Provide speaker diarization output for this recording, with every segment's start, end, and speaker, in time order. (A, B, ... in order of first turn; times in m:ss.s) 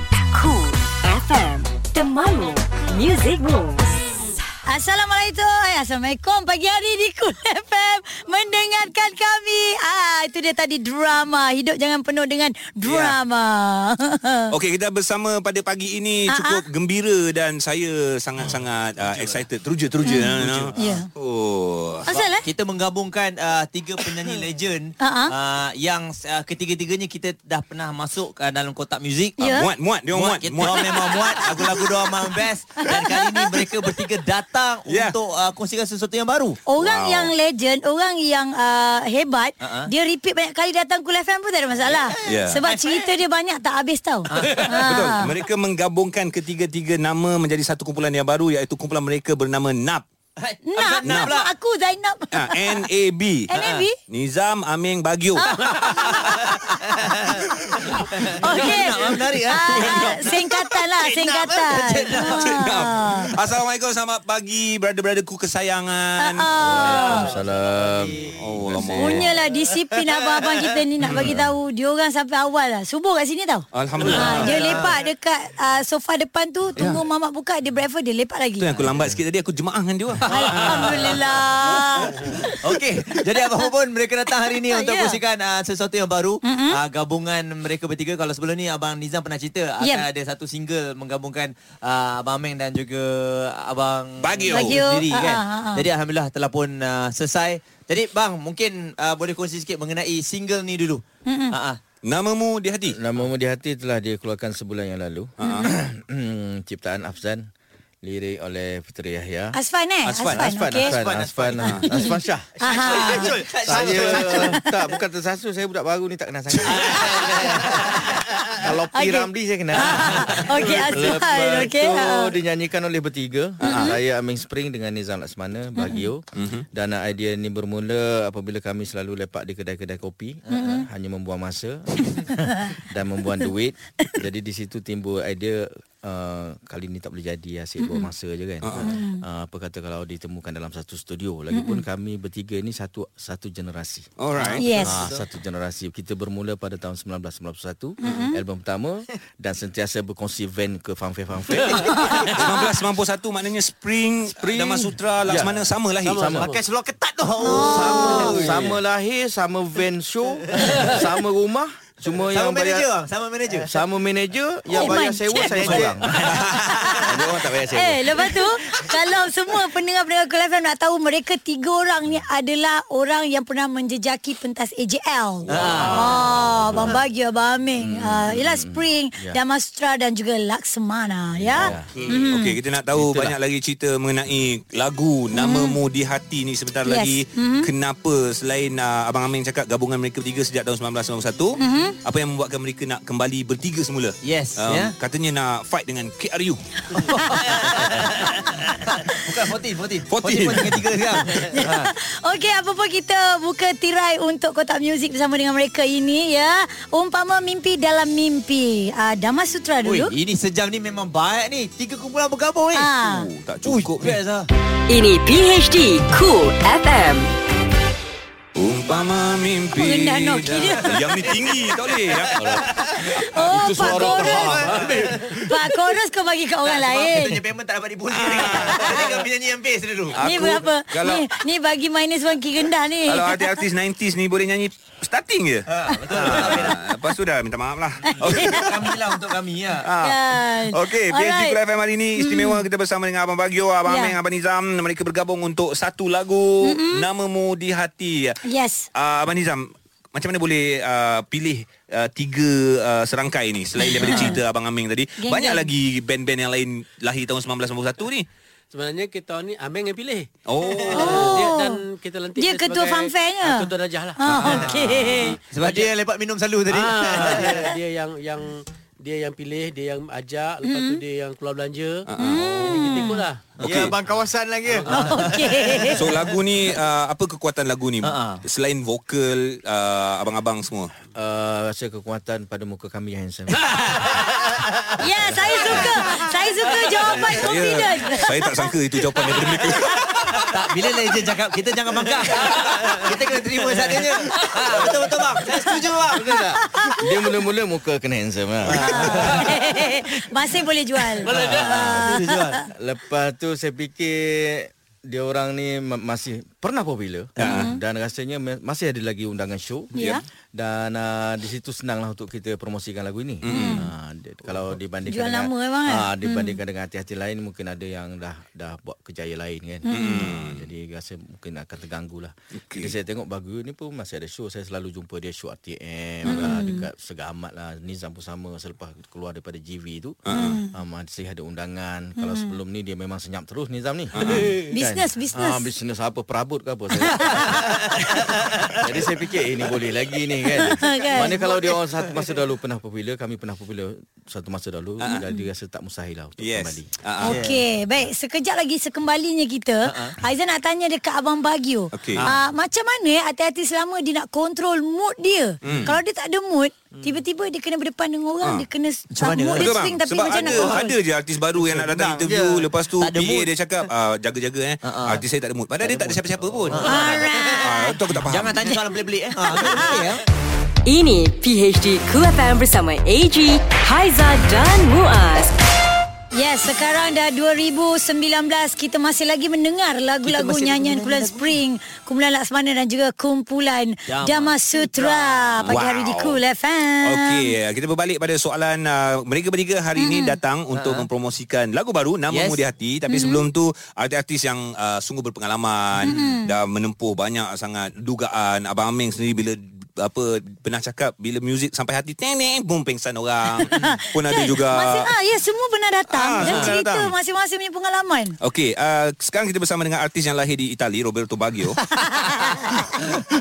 0:00.3-0:04.4 A
0:04.6-0:14.5 B
0:12.8-0:13.2 C
0:14.5-0:22.1 C
0:16.3-0:16.6 B
0:18.4-0:19.4 D
0:20.0-0:21.1 B
0:20.4-0:21.0 D
0:22.0-0:22.5 B
0:22.1-0:29.5 D
0:25.0-0:25.3 B
0:29.4-0:29.7 B
0:29.5-0:31.5 C
0:30.1-0:36.6 D
0:30.7-0:31.8 B
0:32.8-0:33.9 B
0:34.8-0:35.2 C
0:36.7-0:45.2 B
0:36.8-0:37.3 C
0:39.6-0:39.9 D
0:41.8-0:43.0 D
0:42.2-0:42.6 C
0:44.3-0:45.2 D
0:44.4-0:50.0 C
0:50.4-0:51.5 D
0:50.7-0:52.9 B
0:51.0-0:51.3 C
0:52.3-0:53.5 C
0:53.5-0:54.0 B
0:53.5-0:53.8 D
0:54.1-0:56.5 C
0:55.4-0:56.4 B
0:55.5-1:02.7 D
0:57.3-0:57.9 C
0:58.3-1:03.3 B
1:02.2-1:07.0 C
1:06.2-1:07.3 B
1:06.7-1:09.3 E
1:06.7-1:08.4 F
1:08.4-1:09.3 C
1:09.0-1:18.7 B
1:11.1-1:11.4 C
1:11.1-1:11.5 E
1:13.7-1:14.7 C
1:14.0-1:14.9 D
1:18.6-1:21.2 C
1:20.2-1:21.2 D
1:20.2-1:22.6 B
1:22.3-1:41.8 D
1:24.6-1:25.2 B
1:26.4-1:26.8 B
1:29.8-1:30.0 B
1:34.2-1:34.8 C
1:34.5-1:35.8 B
1:41.2-1:41.5 B
1:42.0-1:43.0 C
1:42.9-1:47.5 E
1:45.4-1:45.7 C
1:45.4-1:45.7 B
1:48.0-1:49.6 E
1:49.5-1:50.9 B
1:50.0-1:50.5 C
1:50.3-1:52.6 E
1:50.8-1:51.8 F
1:51.6-1:51.8 C
1:51.9-1:53.3 B
1:52.7-1:54.5 D
1:52.7-1:54.6 F
1:53.6-2:32.7 E
1:56.6-1:58.2 D
1:58.9-2:02.3 B
2:03.6-2:04.0 C
2:03.6-2:03.9 B
2:05.8-2:06.1 B
2:06.4-2:06.6 C
2:10.5-2:10.8 D
2:10.5-2:10.8 B
2:12.2-2:12.7 B
2:17.8-2:18.1 B
2:18.6-2:18.9 C
2:18.8-2:19.2 B
2:21.5-2:21.8 B
2:24.2-2:24.7 C
2:24.4-2:25.2 D
2:24.6-2:25.0 B
2:28.0-2:28.4 B
2:32.3-2:36.3 C
2:34.3-2:36.5 E
2:36.0-2:36.6 G
2:36.4-2:38.8 D
2:37.4-2:38.3 B
2:37.7-2:38.4 G
2:37.9-2:42.9 E
2:42.3-2:43.7 D
2:43.7-2:46.3 E
2:44.7-2:47.1 D
2:44.7-2:45.8 B
2:46.2-2:47.5 C
2:46.6-2:47.1 B
2:47.0-2:48.3 E
2:47.7-3:02.6 B
2:55.5-2:57.0 E
2:55.5-2:56.1 D
2:57.8-2:59.4 E
3:01.4-3:02.1 E
3:02.2-3:17.0 C
3:02.9-3:03.3 E
3:05.3-3:05.8 B
3:06.8-3:07.7 B
3:11.6-3:12.0 B
3:14.2-3:14.9 D
3:16.9-3:21.9 D
3:17.0-3:18.4 B
3:17.6-3:17.9 C
3:20.1-3:20.9 C
3:21.3-3:30.1 B
3:29.8-3:32.9 D
3:32.8-3:33.3 B
3:33.0-3:34.2 C
3:33.6-3:34.5 D
3:34.9-3:37.3 A
3:38.6-3:42.4 C
3:39.8-3:41.0 B
3:42.4-3:45.2 E
3:43.1-3:44.6 B
3:44.0-3:45.2 F
3:45.4-3:47.4 B
3:46.6-3:50.4 D
3:48.1-3:49.0 C
3:50.1-3:51.3 C
3:50.2-3:53.6 B
3:53.1-3:58.7 C
3:55.7-3:56.8 D
3:56.3-3:56.7 B
3:58.1-3:58.7 B
3:58.2-3:59.8 D
3:59.8-4:08.4 C
4:00.0-4:01.6 B
4:02.2-4:02.6 B
4:03.9-4:04.1 B
4:06.6-4:07.1 B
4:08.4-4:08.9 B
4:08.9-4:18.3 C
4:13.8-4:14.4 B
4:15.2-4:15.6 B
4:18.7-4:25.9 G
4:20.5-4:21.4 C
4:20.9-4:21.8 B
4:22.4-4:25.4 B
4:24.2-4:25.4 C
4:24.5-4:27.6 D
4:26.7-4:33.5 G
4:30.6-4:31.0 B
4:32.1-4:32.4 C
4:32.2-4:33.2 B
4:33.6-4:34.0 C
4:33.6-4:33.9 D
4:33.6-4:35.9 F
4:34.6-4:35.2 G
4:34.9-4:35.3 D
4:34.9-4:36.0 B
4:35.9-4:40.9 C
4:38.0-4:38.4 D
4:41.1-4:44.0 E
4:44.4-4:44.9 F
4:45.0-4:48.7 B
4:45.2-4:45.8 E
4:47.1-4:50.5 C
4:49.7-4:50.0 B
4:50.5-4:56.4 D
4:56.1-4:59.5 E
4:56.6-4:57.1 B
4:58.7-4:59.5 D
4:58.8-5:02.6 B
5:01.2-5:01.8 G
5:01.2-5:46.9 E
5:01.3-5:02.6 D
5:07.4-5:07.7 C
5:07.4-5:07.8 B
5:09.9-5:10.2 B
5:13.4-5:13.9 C
5:13.4-5:13.8 B
5:15.0-5:16.6 B
5:19.9-5:20.2 B
5:19.9-5:20.7 C
5:22.6-5:22.9 C
5:26.2-5:26.5 C
5:26.3-5:26.9 B
5:30.2-5:30.6 C
5:30.3-5:30.7 B
5:32.2-5:32.5 B
5:34.2-5:34.5 C
5:34.7-5:35.7 B
5:37.1-5:37.5 B
5:40.5-5:41.4 B
5:40.8-5:42.3 F
5:46.4-5:47.4 C
5:47.2-6:00.9 B
5:47.2-5:47.6 D
5:49.8-5:50.2 D
5:51.9-5:52.3 C
5:55.6-5:56.0 C
5:59.1-5:59.7 D
5:59.6-6:07.0 C
6:01.6-6:02.7 F
6:03.0-6:03.5 D
6:04.8-6:05.2 D
6:05.8-6:07.3 D
6:06.8-6:08.0 B
6:07.6-6:08.6 C
6:08.2-6:10.2 D
6:08.6-6:10.0 B
6:10.8-6:15.5 A
6:16.3-6:27.5 B
6:20.2-6:21.5 D
6:24.1-6:25.8 D
6:25.6-6:26.4 C
6:27.0-6:45.1 C
6:30.0-6:30.4 B
6:30.7-6:31.1 D
6:32.3-6:32.6 D
6:33.1-6:33.4 B
6:36.0-6:36.5 B
6:43.6-6:48.4 B
6:46.1-6:47.1 C
6:46.4-6:46.7 D
6:48.4-6:51.8 C
6:51.9-6:53.0 B